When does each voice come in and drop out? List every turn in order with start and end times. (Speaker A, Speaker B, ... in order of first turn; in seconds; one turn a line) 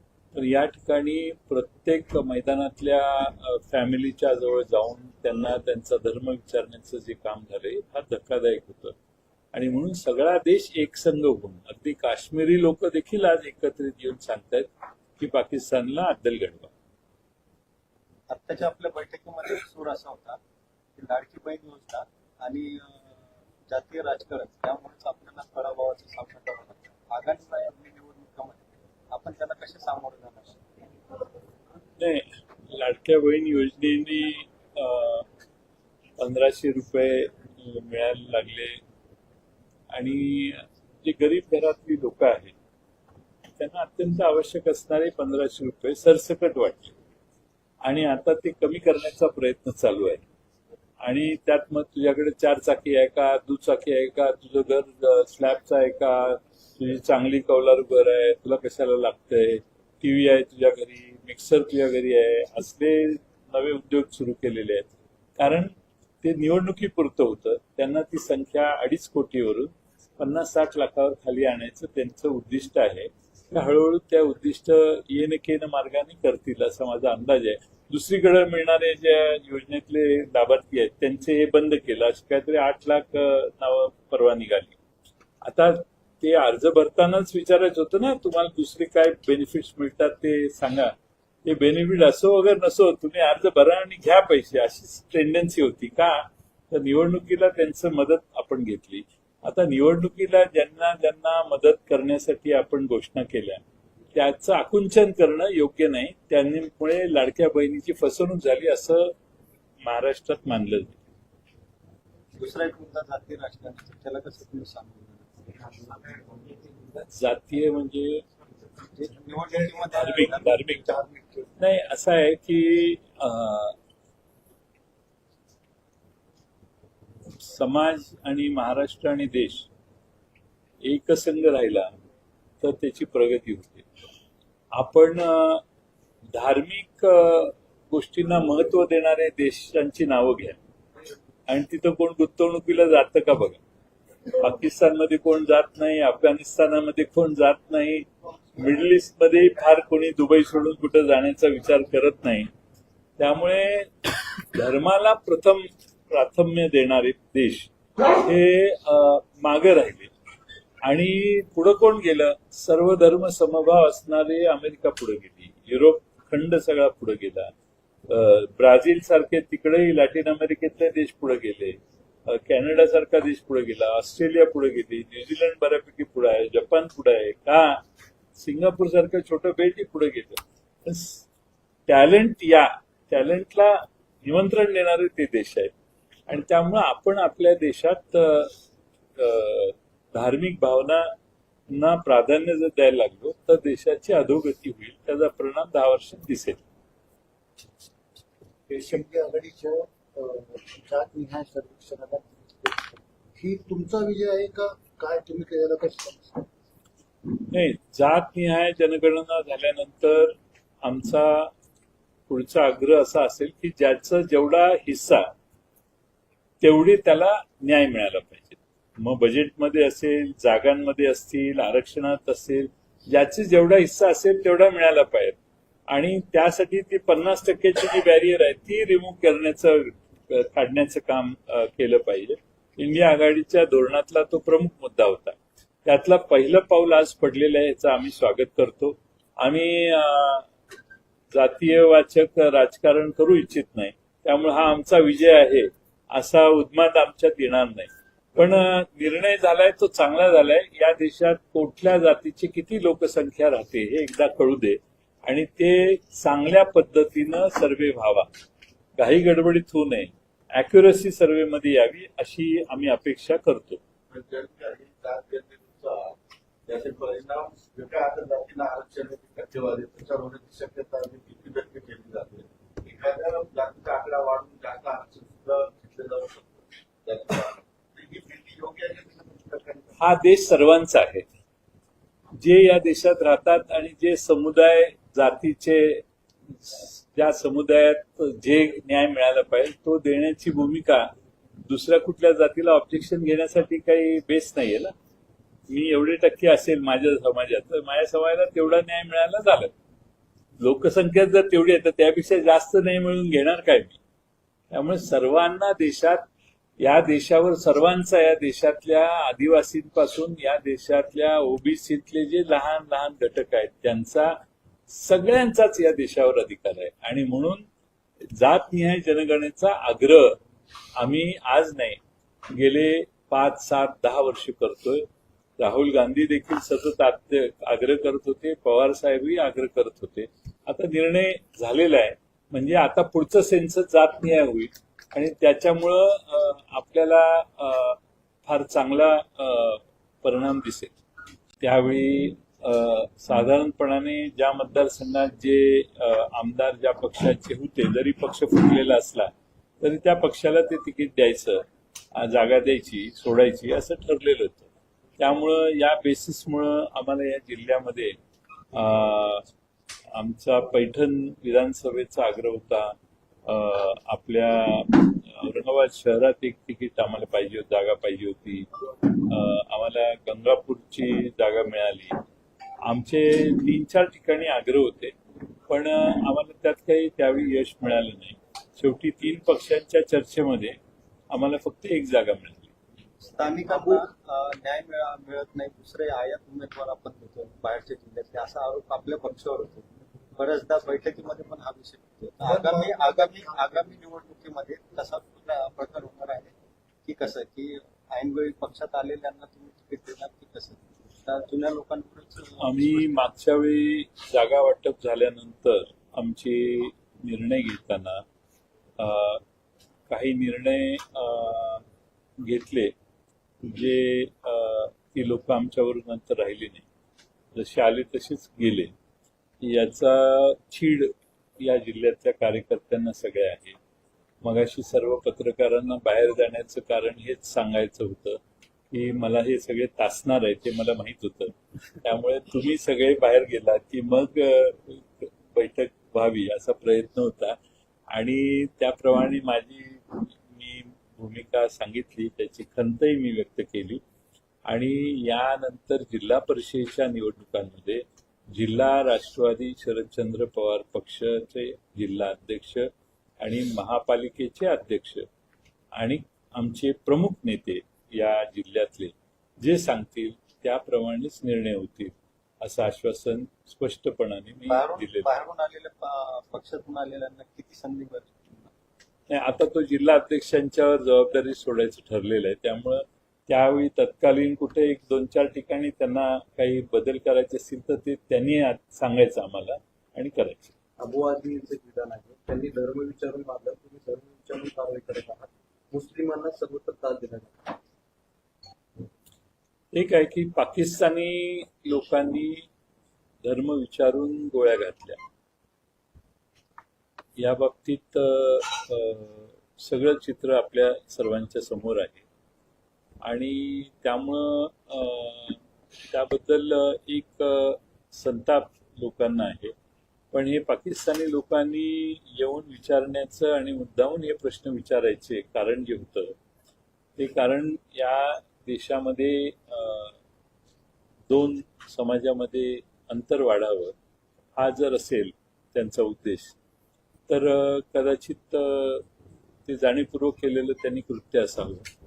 Speaker A: 0.3-8.9
Speaker A: 9.5-16.7
Speaker B: 18.3-20.4
Speaker B: 21.0-23.1
Speaker B: 23.7-30.6
Speaker A: 32.0-35.3
Speaker A: 36.2-38.8
Speaker A: 39.9-42.5
Speaker A: 43.6-46.9
Speaker A: 47.8-50.2
Speaker A: 51.0-84.8
Speaker A: 85.4-90.9
Speaker A: 91.5-103.6
Speaker A: 104.2-109.1
Speaker A: 109.8-111.0
Speaker B: 112.4-115.3
Speaker A: 116.9-118.2
Speaker B: 119.0-120.6
Speaker A: 119.9-120.8
Speaker C: 120.7-121.5
Speaker A: 121.6-123.8
Speaker A: 127.4-129.7
Speaker A: 130.8-131.9
Speaker A: 132.6-133.9
Speaker A: 134.8-135.6
Speaker A: 136.3-140.6
Speaker A: 141.5-143.6
Speaker A: 144.4-152.5
Speaker A: 153.2-160.1
Speaker A: 160.9-167.5
Speaker A: 168.1-171.8
Speaker A: 172.3-177.8
Speaker A: 178.4-181.3
Speaker A: 181.9-185.7
Speaker A: 186.3-188.5
Speaker A: 189.2-191.1
Speaker A: 191.7-196.6
Speaker C: 198.7-206.5
Speaker A: 207.5-211.5
Speaker A: 212.3-215.3
Speaker A: 216.6-225.4
Speaker A: 225.9-240.5
Speaker A: 241.3-258.3
Speaker A: 259.0-263.8
Speaker D: 264.1-266.1
Speaker D: 266.7-279.9
Speaker A: 280.0-281.3
Speaker A: 282.4-286.0
Speaker A: 286.6-291.1
Speaker A: 291.7-294.9
Speaker A: 295.7-299.7
Speaker A: 300.6-304.0
Speaker A: 304.7-306.2
Speaker A: 306.8-314.3
Speaker A: 314.9-317.7
Speaker A: 318.3-320.4
Speaker A: 321.0-322.0
Speaker A: 322.5-325.1
Speaker A: 325.6-340.9
Speaker A: 341.6-354.7
Speaker A: 355.2-358.1
Speaker A: 358.7-359.5
Speaker A: 360.1-362.9
Speaker A: 363.5-372.2
Speaker A: 372.9-375.1
Speaker A: 375.7-380.8
Speaker A: 381.3-382.7
Speaker B: 383.2-389.9
Speaker B: 390.4-396.5
Speaker C: 392.4-393.7
Speaker B: 397.1-403.2
Speaker A: 402.6-408.2
Speaker A: 409.0-409.4
Speaker A: 410.1-411.8
Speaker A: 412.5-412.9
Speaker A: 413.7-416.9
Speaker A: 417.6-418.9
Speaker A: 419.6-423.8
Speaker A: 424.4-428.4
Speaker A: 428.9-437.6
Speaker A: 438.1-444.0
Speaker A: 444.7-448.0
Speaker A: 448.5-452.9
Speaker A: 453.4-455.3
Speaker A: 456.0-465.3
Speaker B: 464.7-468.7
Speaker A: 469.3-480.7
Speaker E: 481.0-487.6
Speaker A: 489.9-492.7
Speaker A: 493.4-495.2
Speaker A: 497.4-502.2
Speaker A: 503.2-509.7
Speaker A: 510.3-516.4
Speaker A: 517.2-520.2
Speaker A: 521.3-523.9
Speaker A: 524.6-526.5
Speaker A: 527.3-529.0
Speaker A: 529.7-531.9